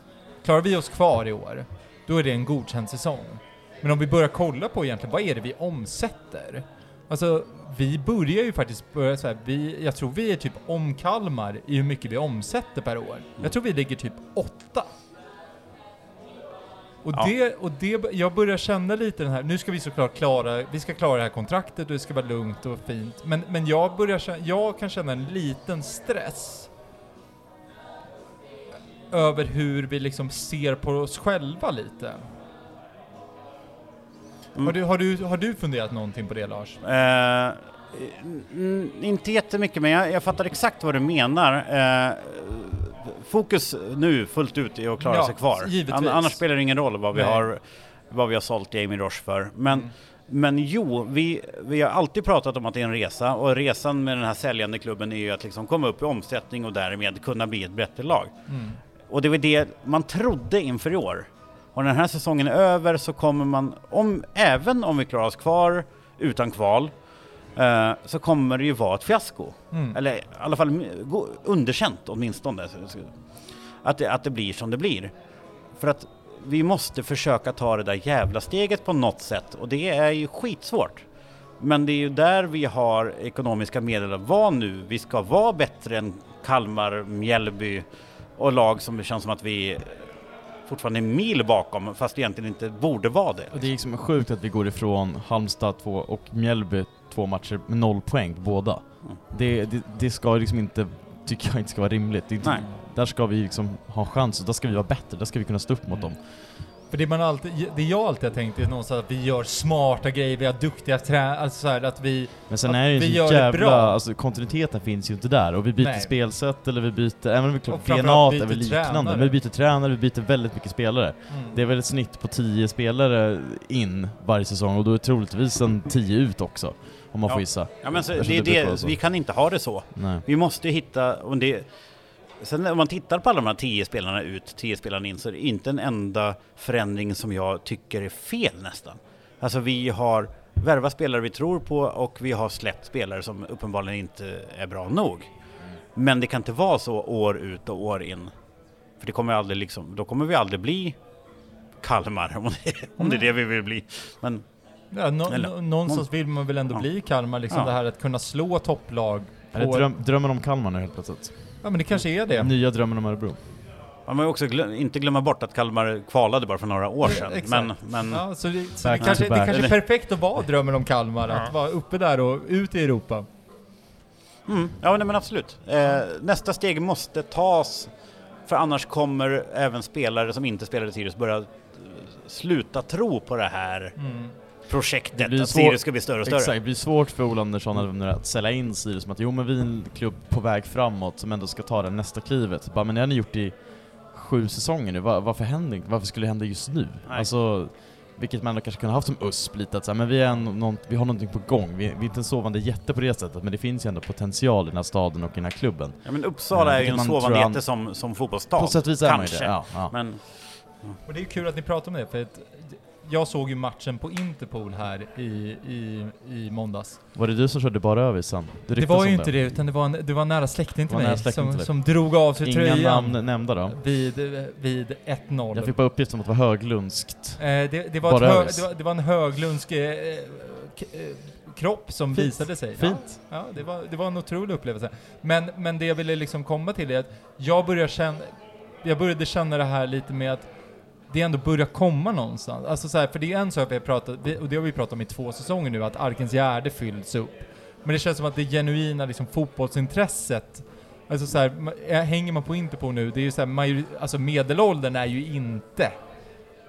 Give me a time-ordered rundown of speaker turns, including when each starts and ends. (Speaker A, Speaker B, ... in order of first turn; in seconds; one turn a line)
Speaker A: 0.4-14.9
Speaker A: 17.0-26.7
Speaker A: 29.1-32.2
Speaker A: 34.6-36.8
Speaker B: 36.8-58.4
Speaker A: 45.0-47.5
Speaker A: 49.7-49.9
Speaker A: 58.5-58.8
Speaker B: 59.1-67.0
Speaker B: 67.5-73.2
Speaker A: 69.7-70.0
Speaker B: 73.8-75.1
Speaker B: 75.8-81.1
Speaker B: 81.6-87.8
Speaker B: 88.4-89.9
Speaker B: 90.7-93.6
Speaker C: 93.5-106.2
Speaker A: 105.9-114.0
Speaker C: 112.5-130.2
Speaker A: 115.8-116.2
Speaker A: 117.7-119.4
Speaker A: 121.3-121.6
Speaker B: 127.8-131.7
Speaker B: 132.4-145.3
Speaker B: 145.9-148.3
Speaker B: 149.0-151.0
Speaker B: 151.8-154.4
Speaker A: 154.9-159.9
Speaker B: 155.3-156.0
Speaker C: 159.5-163.4
Speaker A: 161.6-162.5
Speaker B: 164.1-168.3
Speaker A: 167.0-173.3
Speaker C: 168.8-169.8
Speaker B: 169.0-169.7
Speaker B: 174.5-177.9
Speaker B: 178.5-184.1
Speaker A: 184.0-184.3
Speaker B: 184.7-186.5
Speaker C: 185.1-208.0
Speaker B: 206.1-210.2
Speaker C: 208.5-210.1
Speaker A: 211.1-217.0
Speaker C: 217.1-219.5
Speaker A: 218.8-225.8
Speaker C: 220.9-223.8
Speaker C: 225.5-228.7
Speaker A: 227.4-256.0
Speaker C: 232.1-233.2